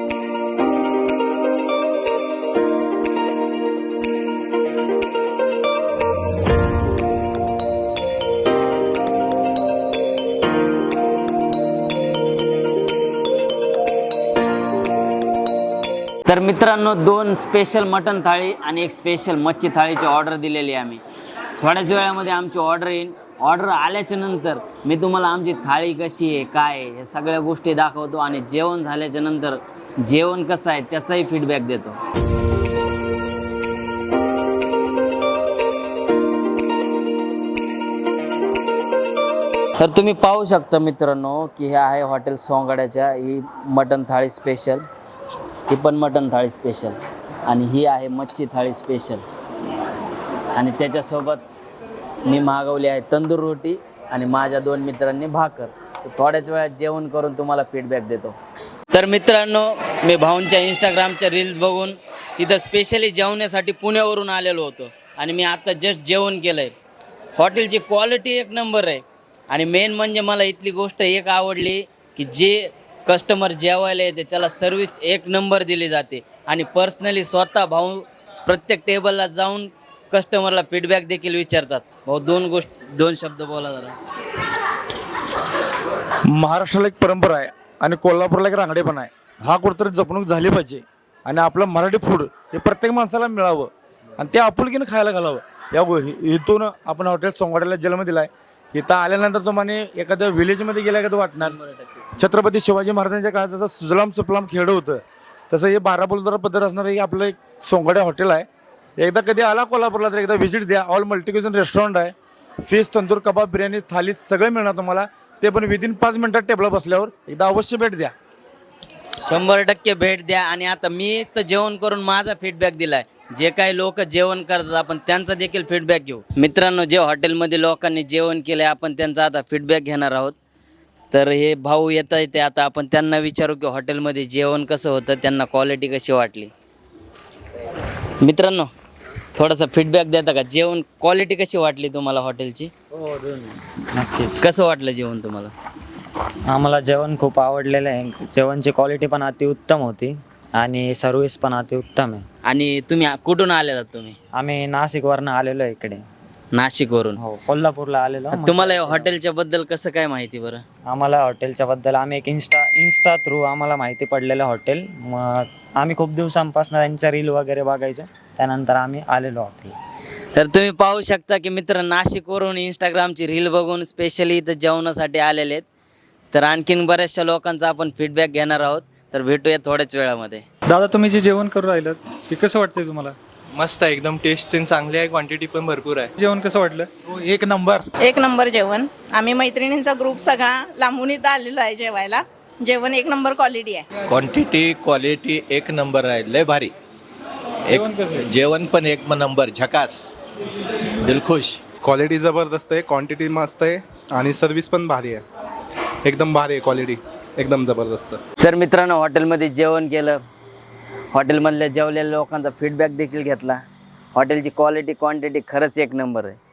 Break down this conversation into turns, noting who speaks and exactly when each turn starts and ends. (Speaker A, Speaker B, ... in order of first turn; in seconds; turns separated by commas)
Speaker A: 16.3-21.0, Speaker A: 21.6-32.0, Speaker A: 39.8-44.8, Speaker A: 45.7-49.2, Speaker A: 50.5-51.5, Speaker A: 52.2-58.4, Speaker A: 58.9-66.7, Speaker A: 67.4-83.9, Speaker B: 86.3-101.6, Speaker A: 101.4-102.1, Speaker B: 102.2-108.5, Speaker B: 109.0-112.1, Speaker B: 112.7-118.1, Speaker A: 119.2-130.3, Speaker A: 131.1-136.5, Speaker A: 138.2-138.7, Speaker A: 139.3-142.7, Speaker C: 142.9-144.5, Speaker A: 144.4-145.5, Speaker C: 146.5-152.2, Speaker A: 152.5-154.2, Speaker C: 154.4-156.1, Speaker A: 156.5-157.2, Speaker C: 157.2-159.1, Speaker A: 158.3-160.6, Speaker C: 160.9-169.8, Speaker A: 170.4-175.7, Speaker A: 176.3-180.4, Speaker D: 180.7-183.2, Speaker E: 183.6-186.2, Speaker D: 186.2-187.9, Speaker F: 188.0-193.8, Speaker G: 194.1-196.7, Speaker G: 197.7-200.1, Speaker D: 197.8-198.3, Speaker G: 201.0-201.6, Speaker H: 201.8-205.2, Speaker H: 206.1-208.2, Speaker A: 208.4-210.2, Speaker A: 211.1-213.6, Speaker A: 214.2-216.4